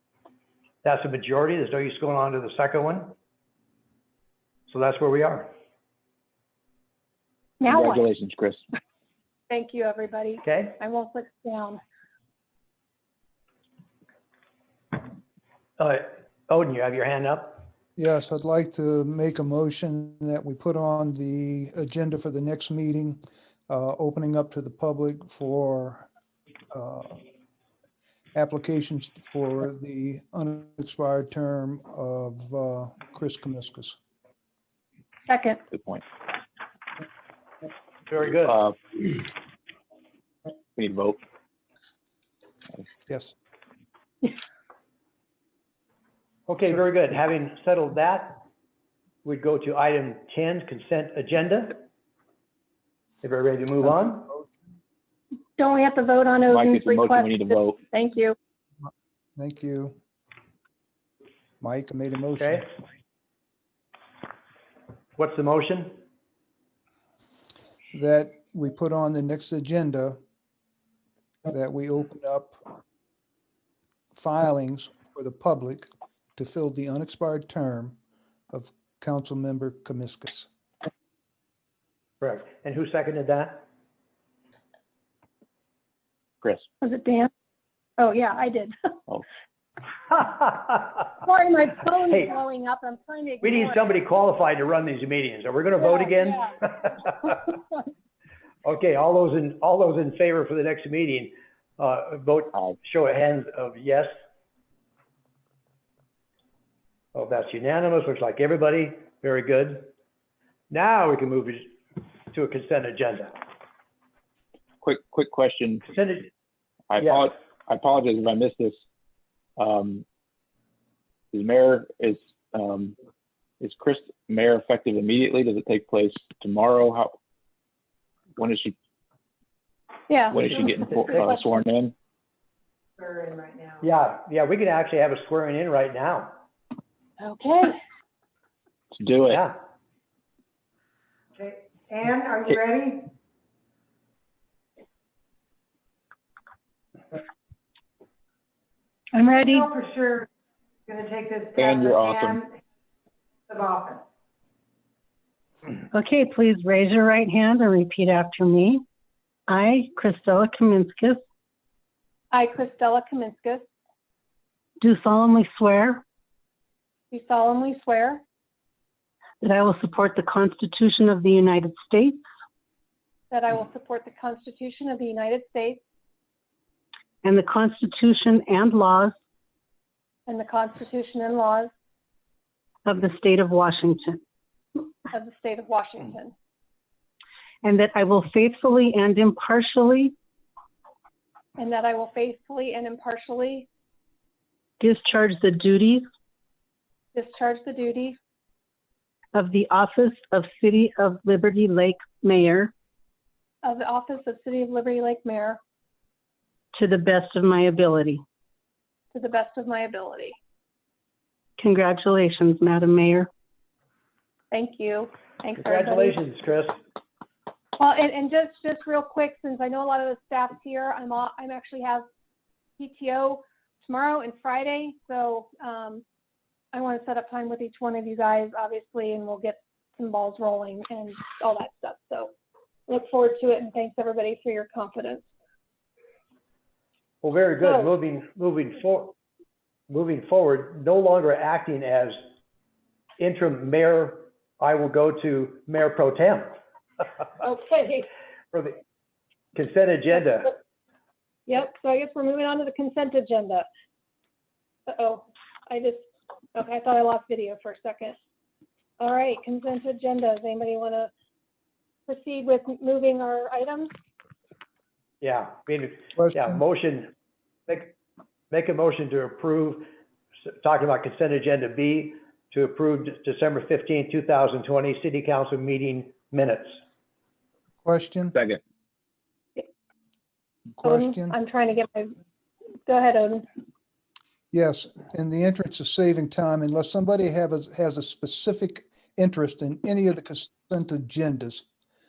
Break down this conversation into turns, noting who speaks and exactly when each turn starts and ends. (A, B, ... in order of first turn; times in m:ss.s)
0:00.8-0:03.1 A
0:04.7-0:05.5 A
0:07.6-0:08.0 B
0:07.6-0:08.6 C
0:09.5-0:11.8 B
0:10.4-0:10.8 A
0:15.8-0:17.7 A
0:18.0-0:26.1 D
0:26.7-0:27.2 D
0:28.3-0:34.0 D
0:35.3-0:35.6 B
0:35.7-0:36.0 C
0:38.1-0:38.6 A
0:38.5-0:38.7 C
0:40.8-0:41.2 C
0:43.1-0:43.3 D
0:46.5-0:48.4 A
0:49.2-0:51.8 A
0:53.2-0:54.3 A
0:53.8-0:54.5 D
0:55.6-0:58.3 B
0:56.5-0:57.8 C
0:58.8-0:59.9 D
1:01.6-1:02.6 D
1:05.2-1:06.0 A
1:07.9-1:10.2 D
1:11.5-1:12.6 D
1:14.1-1:18.0 D
1:18.5-1:20.5 D
1:22.2-1:23.6 A
1:26.8-1:27.3 B
1:28.0-1:29.0 B
1:30.1-1:30.9 A
1:31.2-1:33.8 B
1:33.4-1:37.4 A
1:35.8-1:36.5 B
1:38.6-1:44.1 A
1:47.1-1:49.9 A
1:50.7-1:51.7 A
1:52.3-1:53.4 A
1:54.8-1:55.8 C
1:55.9-1:56.3 A
1:56.9-1:58.8 C
1:57.0-1:57.2 A
1:59.6-2:00.0 C
2:01.3-2:02.9 C
2:03.6-2:07.1 C
2:08.4-2:08.7 C
2:10.1-2:11.6 B
2:10.3-2:11.9 C
2:13.1-2:13.6 E
2:13.8-2:16.3 A
2:17.2-2:17.7 B
2:19.0-2:19.4 C
2:19.3-2:19.6 A
2:22.0-2:23.0 E
2:29.1-2:29.7 F
2:29.8-2:30.2 E
2:30.9-2:32.2 E
2:31.6-2:32.4 C
2:33.5-2:34.0 E
2:35.9-2:38.8 F
2:39.5-2:41.2 F
2:42.3-2:43.7 B
2:44.8-2:46.0 F
2:47.1-2:48.2 B
2:49.4-2:52.2 F
2:53.3-2:55.8 B
2:57.2-2:59.1 F
3:00.3-3:01.7 B
3:02.8-3:04.2 F
3:05.1-3:06.3 B
3:07.6-3:10.1 F
3:11.6-3:13.7 B
3:14.8-3:16.0 F
3:17.1-3:18.2 B
3:19.3-3:22.7 F
3:23.6-3:25.6 B
3:26.7-3:28.2 F
3:29.1-3:30.4 B
3:31.6-3:33.3 F
3:34.5-3:36.2 B
3:35.6-3:36.7 A
3:37.8-3:42.0 B
3:42.8-3:46.0 B
3:46.7-3:52.3 B
3:52.9-3:55.3 B
3:57.2-3:59.1 A
3:57.6-3:57.9 B
3:59.9-4:02.2 A
4:03.2-4:06.5 A
4:07.4-4:08.0 B
4:08.5-4:08.8 A
4:09.5-4:10.5 A
4:11.5-4:13.7 B
4:14.9-4:18.2 B
4:19.0-4:21.1 B
4:22.1-4:23.9 B
4:25.2-4:27.1 A
4:26.2-4:26.6 D
4:27.7-4:27.9 A
4:28.5-4:29.9 A
4:30.6-4:36.8 A
4:37.8-4:38.3 D
4:38.3-4:38.6 C
4:40.8-4:41.4 D
4:40.8-4:42.1 B
4:42.8-4:43.5 B
4:44.5-4:51.6 D